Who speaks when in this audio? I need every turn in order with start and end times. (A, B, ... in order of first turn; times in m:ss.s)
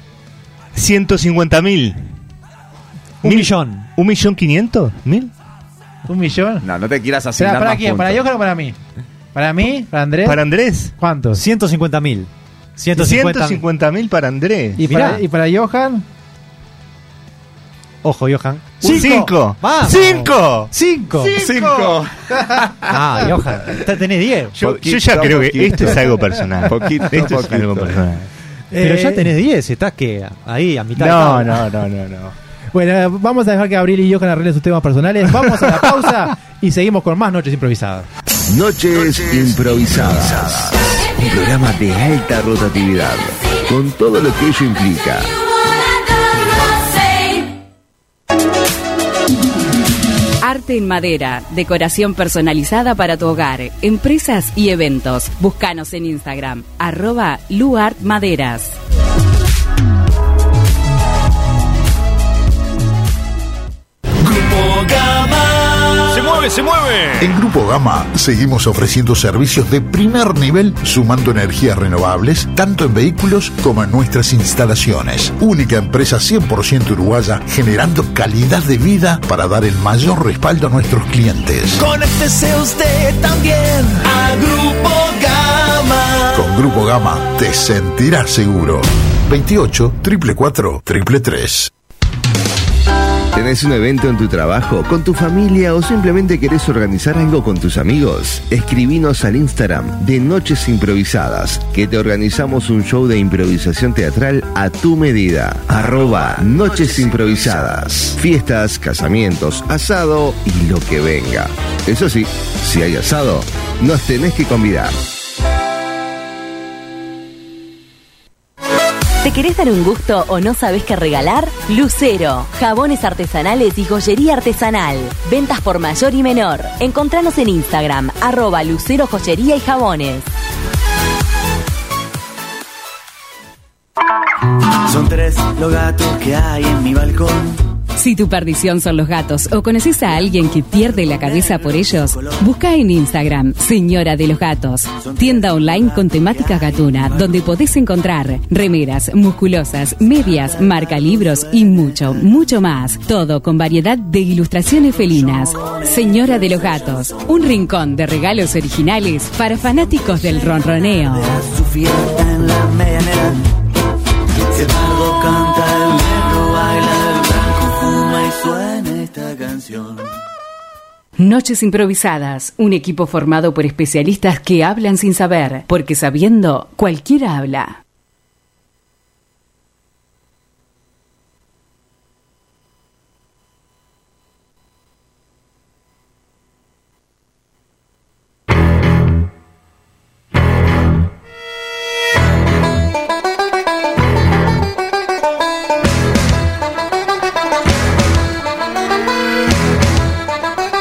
0:00.8-0:02.1 A
0:03.2-0:03.9 B
0:03.2-0:05.3 A
0:06.1-0:06.7 C
0:06.6-0:08.2 D
0:07.4-0:08.8 C
0:09.4-0:10.4 C
0:10.2-0:10.9 A
0:11.0-0:11.4 C
0:11.3-0:13.6 B
0:13.0-0:14.8 A
0:14.8-0:16.0 C
0:14.8-0:15.2 B
0:18.0-0:21.4 B
0:18.8-0:20.7 A
0:18.8-0:19.3 C
0:21.3-0:22.0 A
0:21.4-0:23.0 D
0:22.9-0:24.6 B
0:24.5-0:28.3 A
0:24.6-0:28.1 D
0:28.7-0:29.3 C
0:28.8-0:31.6 B
0:31.0-0:32.4 A
0:32.7-0:38.1 C
0:38.5-0:45.4 E
0:50.4-0:58.8 F
1:04.2-1:07.3 G
1:07.2-1:21.8 H
1:21.8-1:26.4 G
1:26.3-1:31.7 H
1:33.3-1:55.0 E
1:59.2-2:10.3 I
2:14.8-2:17.6 J
2:18.0-2:41.4 F
2:20.7-2:22.4 J
2:25.0-2:27.5 J
2:35.6-2:36.4 J
2:40.9-2:43.5 J
2:44.4-2:50.1 J
2:51.2-2:57.8 F